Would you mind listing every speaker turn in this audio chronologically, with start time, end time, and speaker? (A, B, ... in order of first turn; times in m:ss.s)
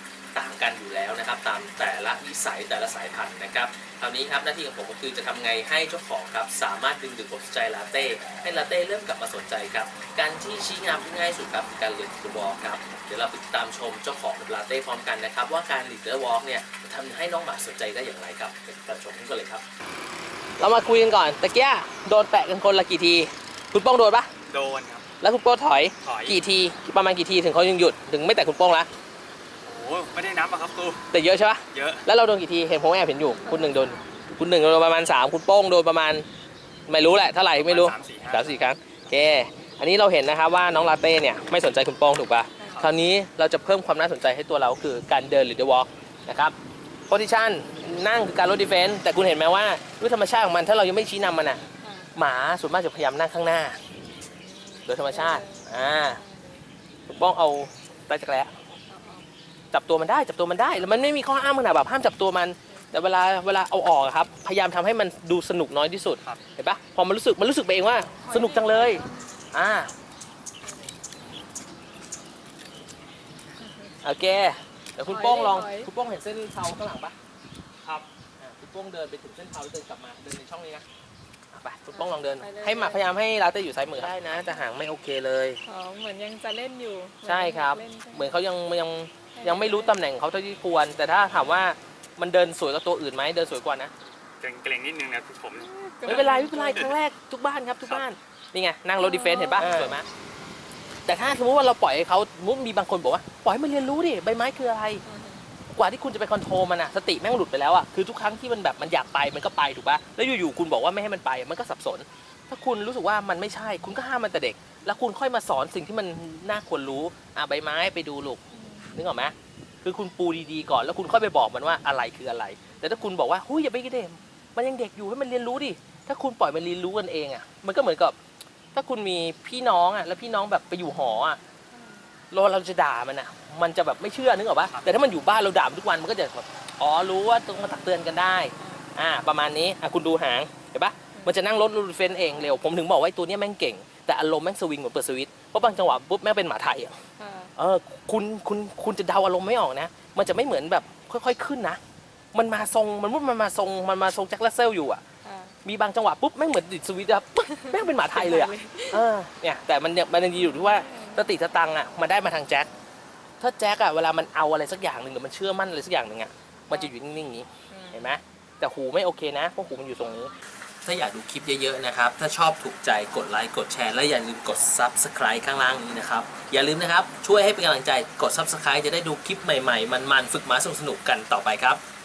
0:00.3-0:19.6 A
0:20.6-0:24.3 A
0:24.5-0:25.0 B
0:25.2-0:28.9 A
0:26.0-0:26.4 B
0:29.6-0:31.0 B
0:31.1-0:36.2 A
0:31.7-0:32.0 B
0:33.4-0:34.0 C
0:36.9-0:46.6 A
0:37.6-0:38.7 B
0:42.6-0:42.9 C
0:42.6-0:42.9 B
0:47.1-0:51.6 A
0:51.8-0:52.1 C
0:52.2-0:53.8 A
0:54.2-0:56.6 C
0:54.9-0:56.2 A
0:57.1-0:58.5 A
0:58.9-0:59.2 C
0:59.7-1:09.9 A
1:08.2-1:09.4 C
1:14.0-1:17.1 A
1:15.1-1:15.9 C
1:18.4-1:20.8 A
1:21.5-1:25.6 A
1:21.9-1:23.0 C
1:25.6-1:28.3 C
1:27.2-1:33.9 A
1:29.4-1:30.0 C
1:34.4-1:37.0 B
1:35.6-1:36.9 C
1:36.0-1:40.0 A
1:39.0-1:39.9 C
1:39.7-1:40.0 B
1:41.0-1:45.0 A
1:45.0-1:45.4 C
1:45.7-1:58.4 A
1:58.5-1:59.1 C
1:58.9-2:08.2 A
2:08.7-2:11.4 A
2:11.7-2:12.1 C
2:12.3-2:26.9 A
2:14.6-2:14.9 B
2:18.6-2:18.8 C
2:27.2-2:27.5 C
2:27.6-2:31.8 A
2:32.3-2:35.0 A
2:35.2-2:35.5 C
2:35.6-2:42.7 A
2:37.7-2:39.0 C
2:40.3-2:41.3 C
2:43.4-2:50.3 A
2:47.7-2:48.2 C
2:50.8-3:01.8 A